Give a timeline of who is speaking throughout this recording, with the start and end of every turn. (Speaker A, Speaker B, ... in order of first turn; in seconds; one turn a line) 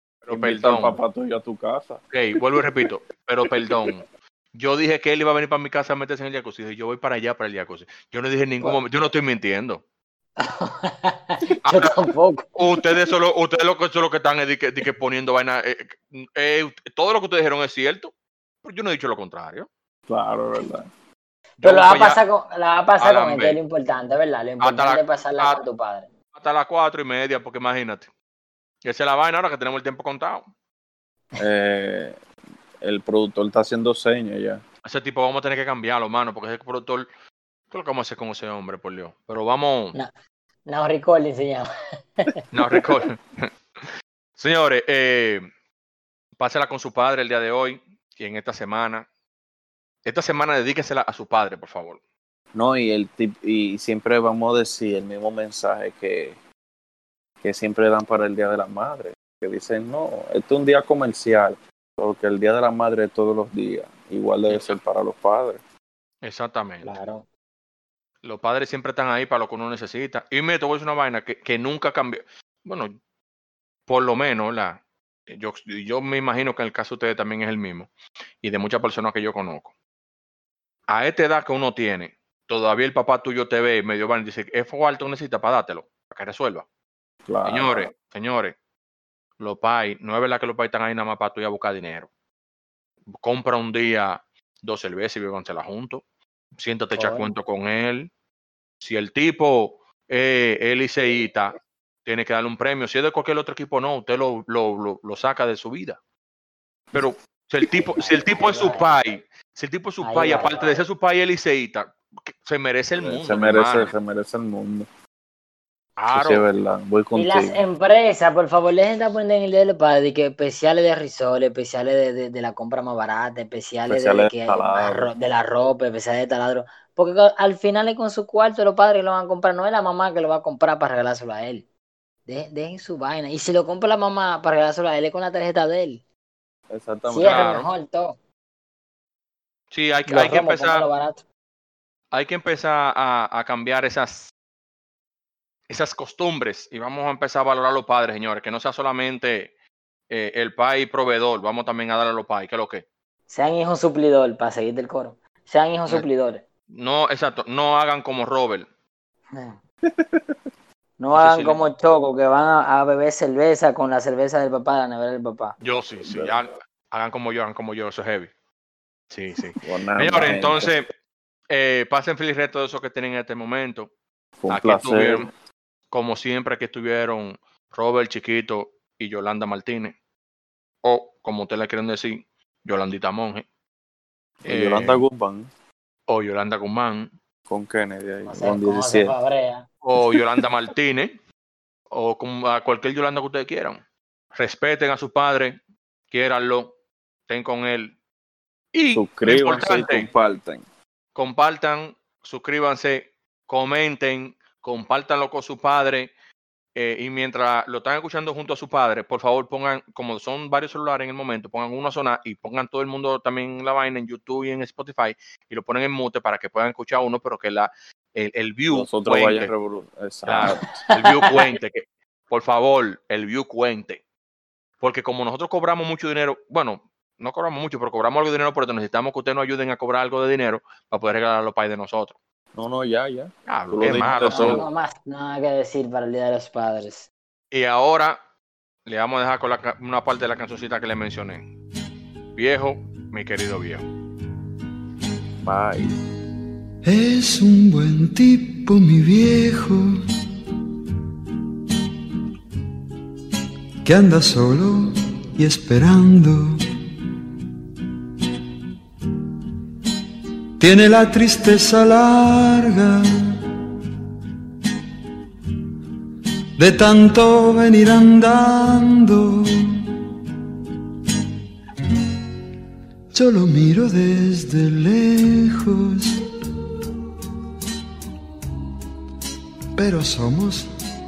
Speaker A: 0.3-1.0
Speaker B: 0.3-2.0
Speaker A: 2.1-9.8
Speaker C: 10.4-12.5
Speaker A: 11.7-18.1
Speaker A: 18.6-19.7
Speaker B: 20.1-20.9
Speaker A: 21.6-22.2
Speaker C: 21.6-26.1
Speaker A: 23.0-23.6
Speaker A: 24.6-25.6
Speaker A: 26.4-28.1
Speaker A: 28.8-30.4
Speaker B: 31.4-32.2
Speaker B: 32.8-34.6
Speaker A: 34.9-37.1
Speaker A: 37.7-40.0
Speaker C: 40.7-41.7
Speaker A: 42.5-45.5
Speaker A: 46.4-49.0
Speaker A: 50.0-52.0
Speaker B: 52.5-56.4
Speaker B: 57.4-65.6
Speaker A: 64.5-64.8
Speaker A: 66.2-67.0
Speaker C: 66.8-67.3
Speaker A: 68.2-72.9
Speaker A: 73.9-77.9
Speaker A: 78.4-79.7
Speaker A: 80.9-86.7
Speaker B: 87.3-87.9
Speaker A: 87.5-88.5
Speaker A: 89.4-92.1
Speaker A: 93.2-96.0
Speaker A: 96.6-98.1
Speaker C: 96.9-97.3
Speaker A: 98.8-106.0
Speaker A: 106.9-113.9
Speaker C: 107.7-108.8
Speaker C: 110.0-110.8
Speaker B: 113.0-114.9
Speaker A: 116.0-116.5
Speaker B: 116.1-117.6
Speaker C: 117.2-131.6
Speaker B: 123.9-125.1
Speaker C: 132.3-136.0
Speaker B: 136.7-137.5
Speaker C: 137.1-138.2
Speaker A: 137.2-137.7
Speaker A: 139.7-140.8
Speaker C: 140.1-141.2
Speaker A: 142.1-144.3
Speaker A: 145.7-149.5
Speaker A: 150.1-152.8
Speaker C: 153.3-156.4
Speaker A: 156.7-158.7
Speaker C: 159.3-159.6
Speaker B: 159.9-160.3
Speaker C: 161.0-165.6
Speaker A: 161.1-161.6
Speaker A: 165.6-168.3
Speaker B: 166.0-166.3
Speaker A: 169.1-170.9
Speaker B: 169.6-170.8
Speaker A: 171.5-173.9
Speaker B: 174.4-175.3
Speaker A: 174.5-175.3
Speaker A: 175.9-179.9
Speaker A: 180.8-183.4
Speaker B: 184.4-185.5
Speaker A: 184.5-185.0
Speaker A: 186.1-187.1
Speaker B: 187.5-189.1
Speaker C: 188.3-189.7
Speaker A: 189.8-191.2
Speaker A: 191.9-193.8
Speaker A: 194.3-195.6
Speaker A: 196.1-196.7
Speaker A: 197.3-197.9
Speaker A: 198.7-200.1
Speaker B: 198.9-200.6
Speaker A: 201.2-206.1
Speaker A: 206.8-219.5
Speaker B: 218.7-220.8
Speaker A: 220.3-224.0
Speaker C: 220.9-221.4
Speaker A: 224.8-232.2
Speaker B: 232.6-234.7
Speaker A: 233.5-234.6
Speaker C: 234.2-237.1
Speaker A: 237.5-238.2
Speaker A: 238.9-241.4
Speaker A: 242.3-243.8
Speaker B: 245.4-245.9
Speaker D: 246.8-250.0
Speaker D: 253.8-256.6
Speaker D: 260.6-263.4
Speaker D: 266.6-269.8
Speaker D: 273.1-276.2
Speaker D: 279.8-280.7